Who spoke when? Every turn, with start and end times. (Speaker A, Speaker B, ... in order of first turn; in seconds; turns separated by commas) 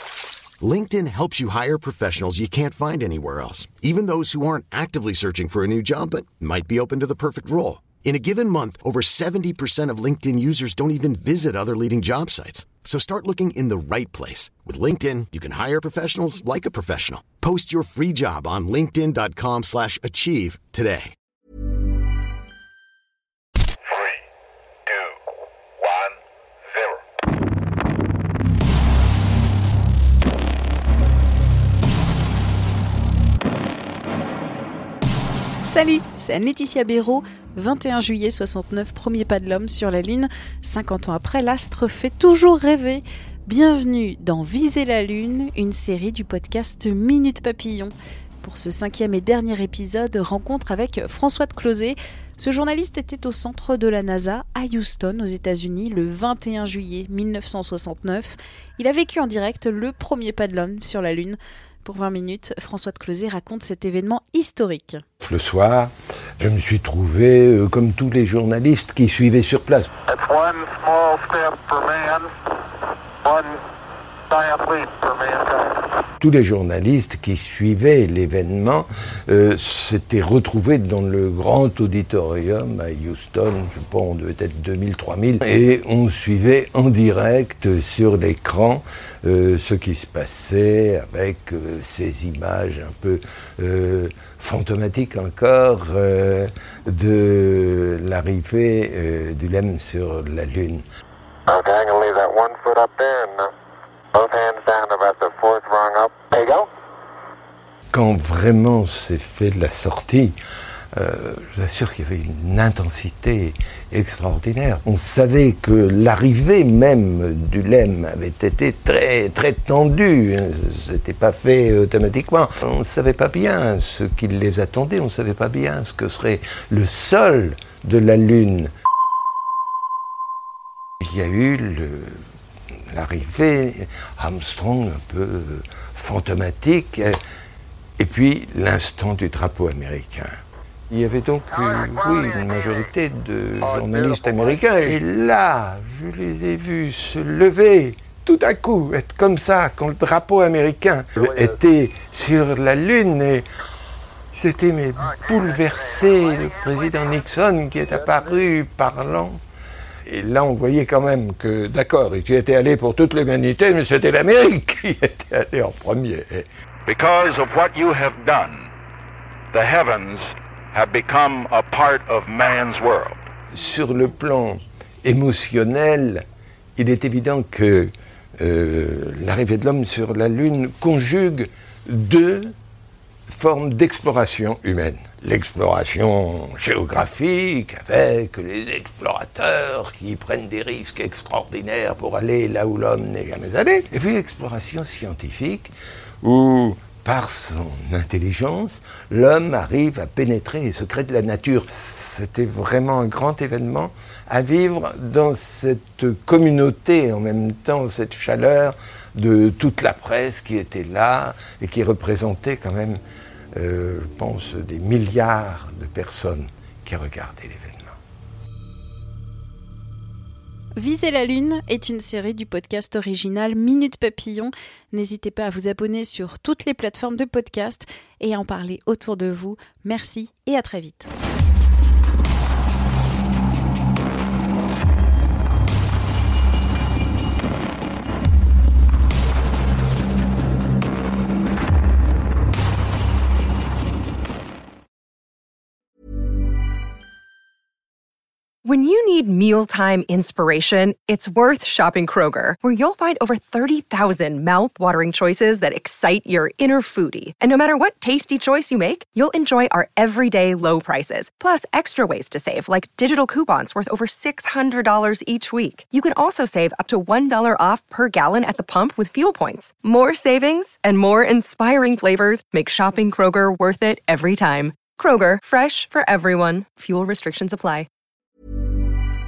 Speaker A: 0.6-21.1, Speaker B: 35.6-65.0, Speaker C: 65.2-69.9, Speaker D: 70.1-72.3, Speaker D: 73.2-73.6, Speaker D: 74.3-75.8, Speaker C: 76.2-100.8, Speaker D: 101.5-103.5, Speaker D: 104.1-106.7, Speaker C: 107.9-110.3, Speaker C: 110.9-128.7, Speaker C: 131.0-132.2, Speaker C: 132.9-137.2, Speaker C: 138.0-140.3, Speaker C: 140.9-153.4, Speaker D: 143.8-144.5, Speaker C: 154.3-159.4, Speaker C: 160.1-166.4, Speaker E: 166.9-168.7, Speaker E: 169.5-173.2, Speaker C: 173.5-176.2, Speaker C: 176.8-182.5, Speaker C: 183.3-213.0, Speaker C: 213.6-217.9, Speaker B: 220.8-231.1, Speaker F: 248.7-277.9